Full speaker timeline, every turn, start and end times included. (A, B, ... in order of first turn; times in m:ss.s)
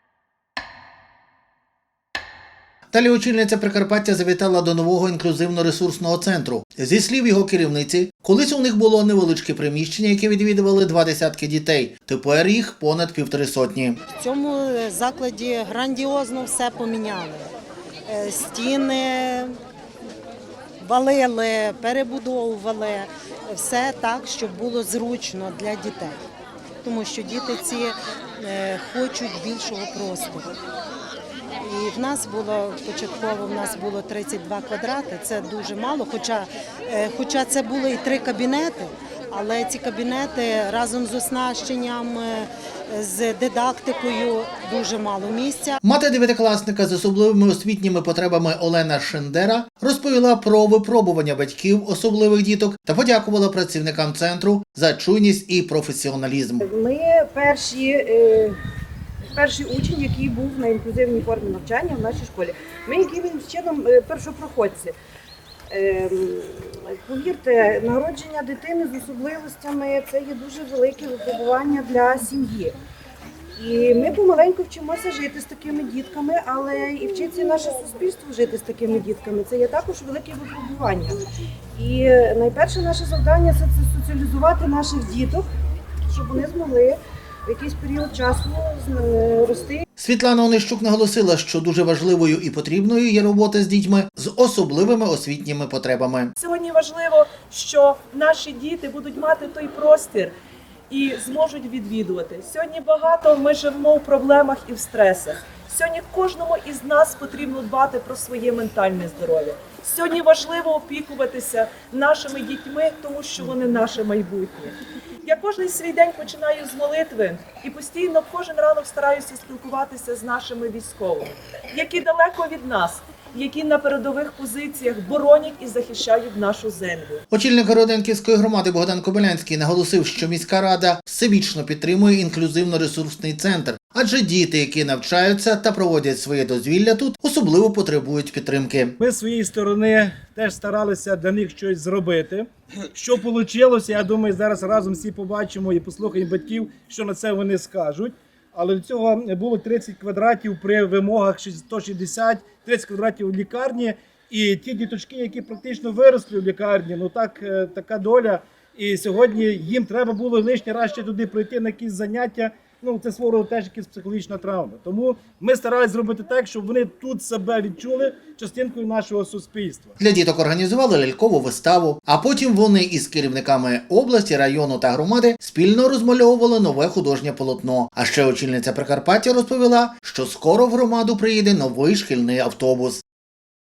0:02.9-0:14.0 A
0:14.2-0:17.5 B
0:18.1-0:19.5 B
0:20.8-0:26.2 B
0:26.8-0:30.4 B
0:31.6-0:45.7 B
0:45.8-0:56.6 A
0:56.6-0:58.6 C
0:59.3-1:05.0 C
1:05.7-1:12.8 C
1:13.6-1:21.2 C
1:21.8-1:25.5 C
1:26.1-1:29.8 C
1:30.0-1:36.3 A
1:36.4-1:40.3 D
1:40.9-2:07.2 D
2:07.3-2:19.0 A
2:19.0-2:50.0 E
2:50.0-3:03.0 A